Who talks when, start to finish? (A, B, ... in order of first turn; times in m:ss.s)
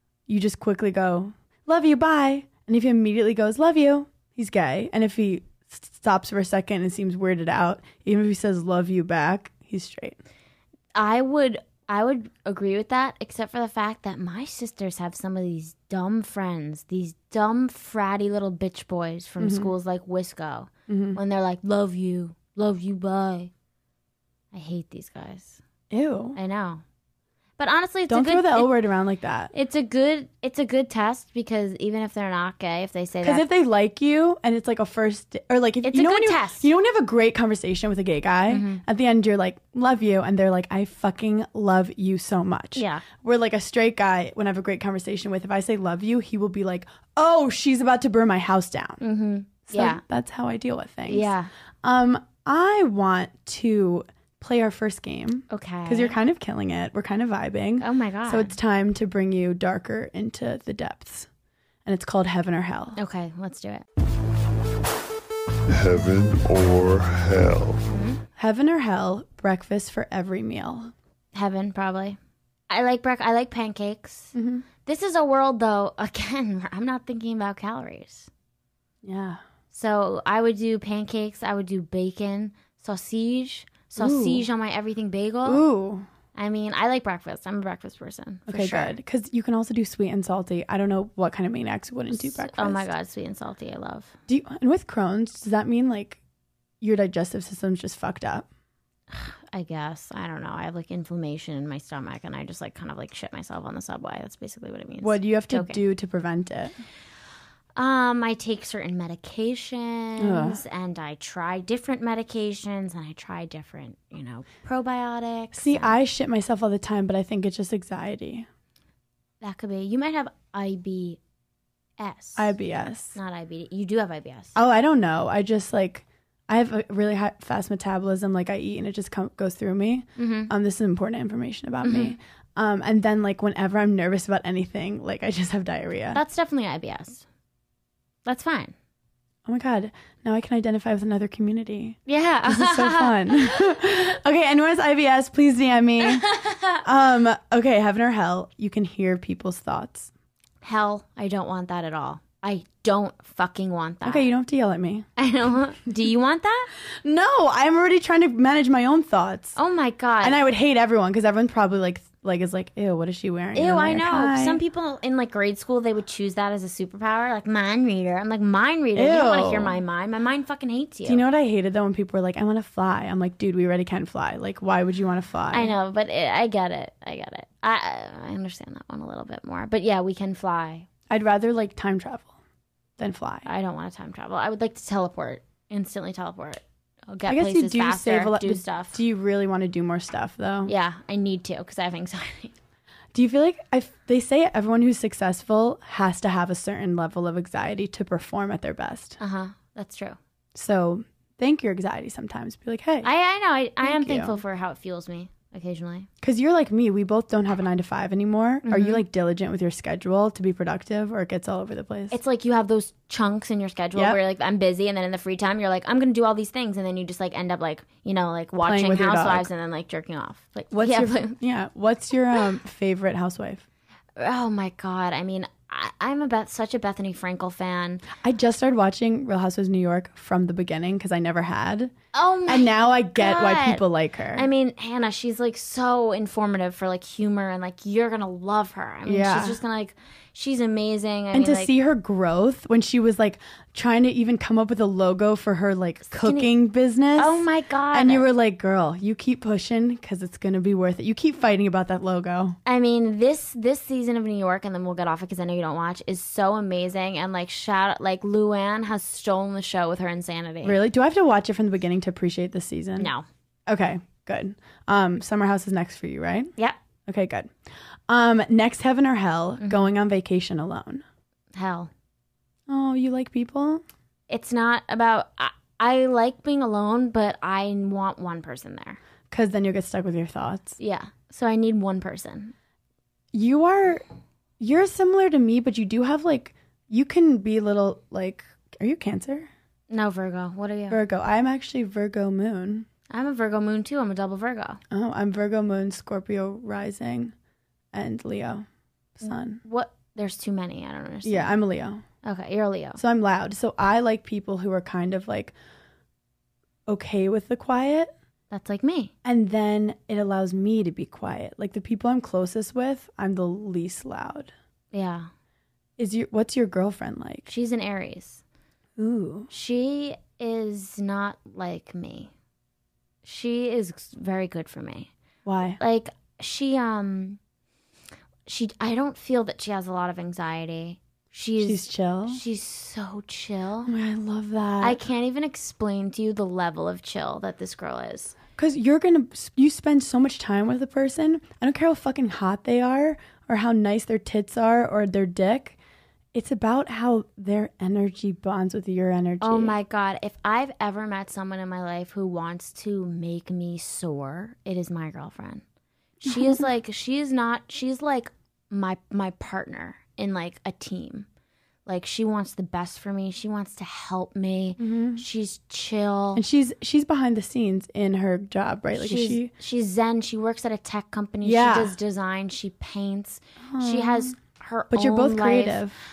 0:00.3-0:10.2 A
0:10.9-0:23.5 B
0:19.4-0:19.7 A
0:20.9-0:21.2 A
0:24.5-0:25.6 B
0:25.9-0:26.4 A
0:26.4-0:26.8 B
0:27.6-0:28.7 B
0:28.1-0:29.5 A
0:29.5-0:33.4 B
0:33.2-0:49.0 A
0:35.8-0:36.7 B
0:38.5-0:38.8 B
0:42.8-0:43.0 B
0:49.0-0:50.0 B
0:49.7-0:51.3 A
0:51.1-0:51.5 B
0:51.8-1:01.3 A
0:55.5-0:56.2 B
0:57.8-0:58.5 B
1:01.8-1:03.0 A
1:03.0-1:03.8 B
1:05.7-1:07.9 C
1:07.9-1:08.2 B
1:08.4-1:10.9 A
1:11.3-1:12.2 B
1:12.7-1:14.3 B
1:14.3-1:14.6 A
1:14.8-1:18.3 B
1:19.0-1:19.4 A
1:19.7-1:25.6 B
1:24.0-1:24.4 A
1:25.4-1:26.0 A
1:26.3-1:29.0 B
1:28.5-1:32.9 A
1:32.1-1:34.1 B
1:34.3-1:36.2 A
1:36.8-1:38.5 A
1:39.1-1:45.8 B
1:45.0-1:46.7 A
1:47.8-1:55.9 B
1:50.2-1:50.6 A
1:55.5-1:58.5 A
1:59.4-2:01.2 B
2:02.0-2:02.5 B
2:02.4-2:03.2 A
2:03.2-2:04.5 B
2:04.5-2:16.2 A
2:10.2-2:10.5 B
2:11.8-2:12.1 B
2:16.1-2:17.2 B
2:18.2-2:18.7 B
2:19.4-2:30.1 A
2:22.1-2:23.7 B
2:26.0-2:26.8 B
2:30.6-2:34.3 B
2:34.0-2:35.1 A
2:35.2-2:36.7 B
2:37.0-2:39.6 A
2:39.6-2:40.4 B
2:40.2-2:44.6 A
2:43.5-2:51.2 B
2:48.9-2:49.8 A
2:51.0-2:55.7 A
2:55.5-3:00.9 B
3:01.1-3:02.3 A
3:03.0-3:03.5 A
3:03.4-3:09.0 B
3:07.2-3:10.7 A
3:10.6-3:12.5 B
3:13.1-3:19.2 A
3:19.2-3:20.2 B
3:20.5-3:23.1 A
3:23.0-3:26.1 B
3:23.8-3:24.4 A
3:26.2-3:32.2 A
3:28.6-3:29.0 B
3:32.1-3:41.4 B
3:38.6-3:39.5 A
3:40.7-3:43.6 A
3:44.2-3:48.0 B
3:48.2-3:51.9 A
3:52.1-3:53.8 B
3:52.4-3:54.5 A
3:54.3-4:01.7 B
3:59.0-3:59.6 A
4:01.3-4:12.6 A
4:06.1-4:06.5 B
4:07.2-4:08.2 B
4:12.6-4:20.8 B
4:20.6-4:23.1 A
4:23.0-4:23.2 B
4:23.7-4:26.5 A
4:27.0-4:27.5 A
4:28.1-4:31.0 A
4:29.6-4:29.9 B
4:31.5-4:31.9 B
4:32.7-4:33.8 A
4:34.3-4:39.0 B
4:39.3-4:40.8 A
4:40.8-4:42.5 B
4:43.3-4:44.0 A
4:44.6-4:49.5 A
4:49.9-4:51.0 B
4:50.9-4:52.9 A
4:53.1-4:54.8 B
4:54.9-4:57.3 A
4:57.9-4:58.6 A
4:59.2-4:59.6 A
4:59.2-5:01.6 B
5:01.2-5:02.0 A
5:02.2-5:03.0 B
5:03.0-5:05.5 A
5:06.9-5:08.1 A
5:08.5-5:09.1 B
5:09.2-5:14.5 A
5:14.9-5:15.3 B
5:16.0-5:17.4 A
5:17.5-5:18.4 B
5:19.0-5:19.5 A
5:19.5-5:22.3 B
5:23.2-5:25.1 B
5:25.4-5:25.8 A
5:25.8-5:27.4 B
5:28.4-5:33.9 B
5:31.6-5:32.4 A
5:33.8-5:35.0 A
5:34.8-5:38.4 B
5:38.6-5:45.8 A
5:46.3-5:49.8 A
5:49.4-5:55.6 B
5:56.2-6:01.3 B
5:56.2-5:56.6 A
6:01.8-6:06.4 B
6:04.8-6:05.2 A
6:06.3-6:09.5 A
6:08.9-6:15.8 B
6:11.4-6:12.0 A
6:13.6-6:14.3 A
6:14.9-6:16.0 A